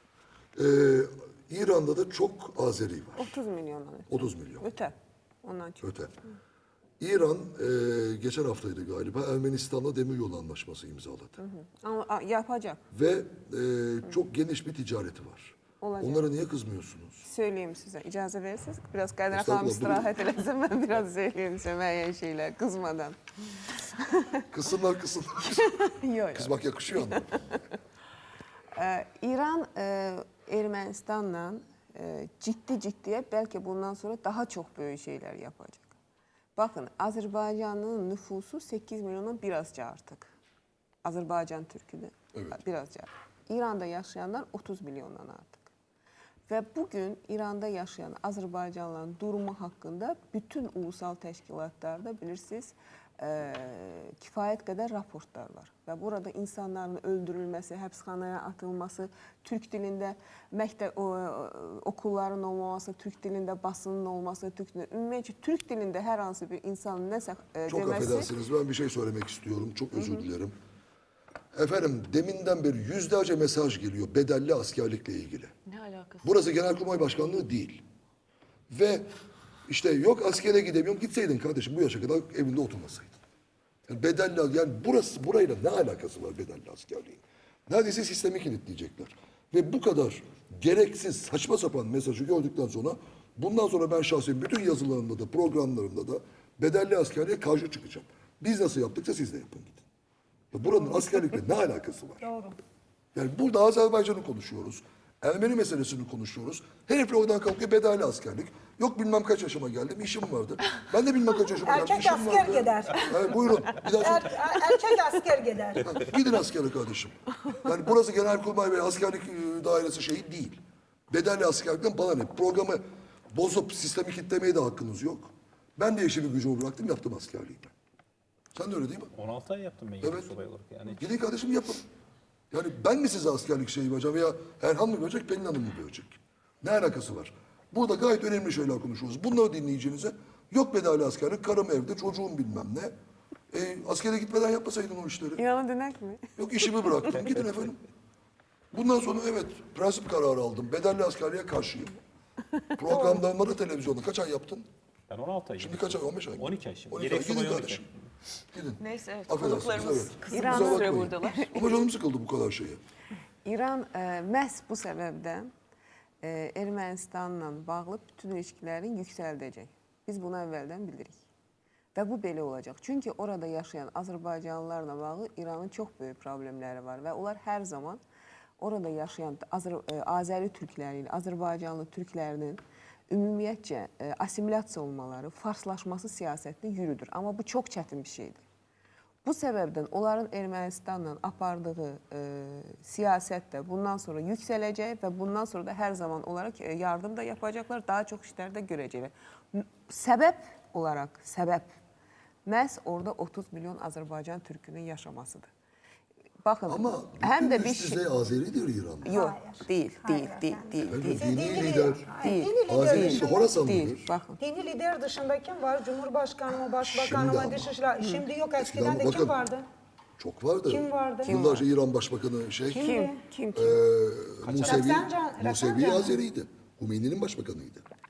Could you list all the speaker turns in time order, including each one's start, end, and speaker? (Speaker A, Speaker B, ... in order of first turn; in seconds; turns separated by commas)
Speaker A: 0.6-3.4, Speaker B: 3.2-5.9, Speaker A: 4.1-4.6, Speaker A: 5.8-6.1, Speaker A: 7.0-11.4, Speaker B: 11.4-12.8, Speaker A: 12.9-17.2, Speaker B: 15.8-16.3, Speaker B: 17.2-24.4, Speaker A: 19.3-20.1, Speaker A: 24.5-25.7, Speaker B: 25.5-27.6, Speaker A: 26.3-27.3, Speaker B: 28.8-36.0, Speaker B: 36.6-40.3, Speaker B: 41.0-45.7, Speaker B: 46.5-68.3, Speaker A: 67.7-70.5, Speaker B: 69.9-70.3, Speaker A: 71.5-75.5, Speaker C: 75.7-76.3, Speaker A: 76.2-77.8, Speaker A: 78.7-79.1, Speaker A: 79.7-83.2, Speaker A: 83.9-99.8, Speaker A: 100.5-102.3, Speaker D: 102.2-102.6, Speaker A: 103.2-114.3, Speaker D: 111.7-113.1, Speaker D: 114.0-115.9, Speaker A: 115.8-127.7, Speaker A: 128.5-129.1, Speaker E: 129.1-131.0, Speaker A: 130.0-130.3, Speaker A: 130.9-131.9, Speaker A: 132.5-142.9, Speaker A: 143.5-145.4, Speaker B: 145.4-147.3, Speaker A: 146.4-147.8, Speaker A: 148.7-152.0, Speaker A: 152.8-154.7, Speaker D: 152.9-153.2, Speaker E: 155.1-157.9, Speaker A: 155.6-157.8, Speaker A: 158.5-162.8, Speaker C: 158.8-161.8, Speaker B: 160.3-161.7, Speaker B: 163.4-165.5, Speaker B: 166.2-171.2, Speaker B: 171.9-178.0, Speaker B: 178.6-188.4, Speaker B: 189.2-201.7, Speaker B: 202.5-205.5, Speaker B: 206.4-208.1, Speaker A: 206.7-209.2, Speaker D: 209.1-213.6, Speaker B: 209.1-211.4, Speaker A: 210.8-212.1, Speaker B: 212.2-214.4, Speaker A: 212.7-214.1, Speaker D: 214.4-219.7, Speaker A: 216.8-217.7, Speaker B: 218.0-218.2, Speaker A: 218.6-219.4, Speaker A: 220.2-222.9, Speaker D: 220.7-221.4, Speaker B: 221.2-221.7, Speaker D: 222.7-223.2, Speaker B: 222.8-223.8, Speaker A: 223.6-227.8, Speaker E: 224.4-225.0, Speaker D: 224.6-226.2